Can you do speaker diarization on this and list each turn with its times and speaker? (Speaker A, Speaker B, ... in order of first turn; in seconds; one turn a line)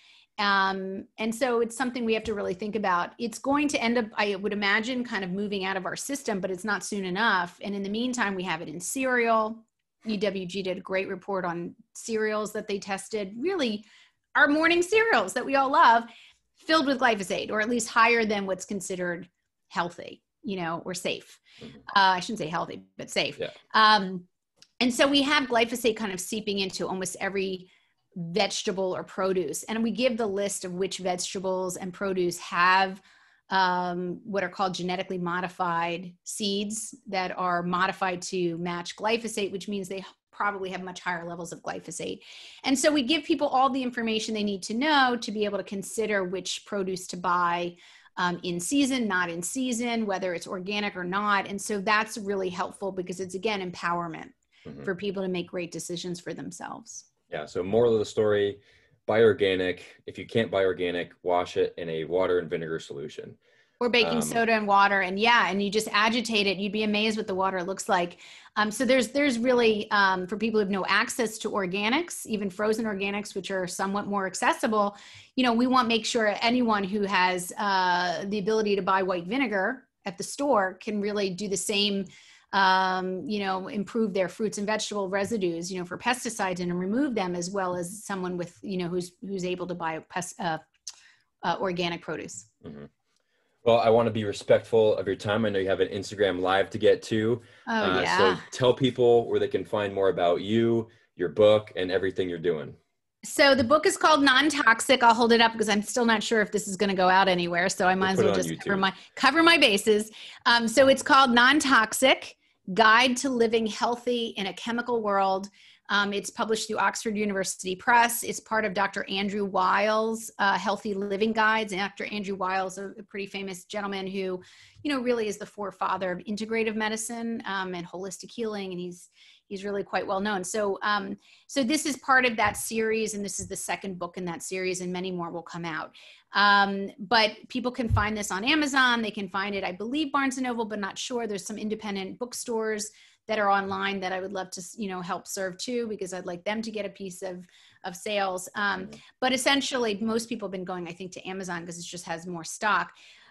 Speaker A: 0.4-24.2
Speaker A: 24.8-57.1
Speaker B: 57.3-63.4
Speaker A: 63.8-90.6
Speaker B: 64.0-64.4
Speaker A: 91.4-92.5
Speaker B: 92.6-92.9
Speaker B: 93.6-102.8
Speaker A: 97.7-98.4
Speaker A: 103.2-152.9
Speaker B: 108.0-108.8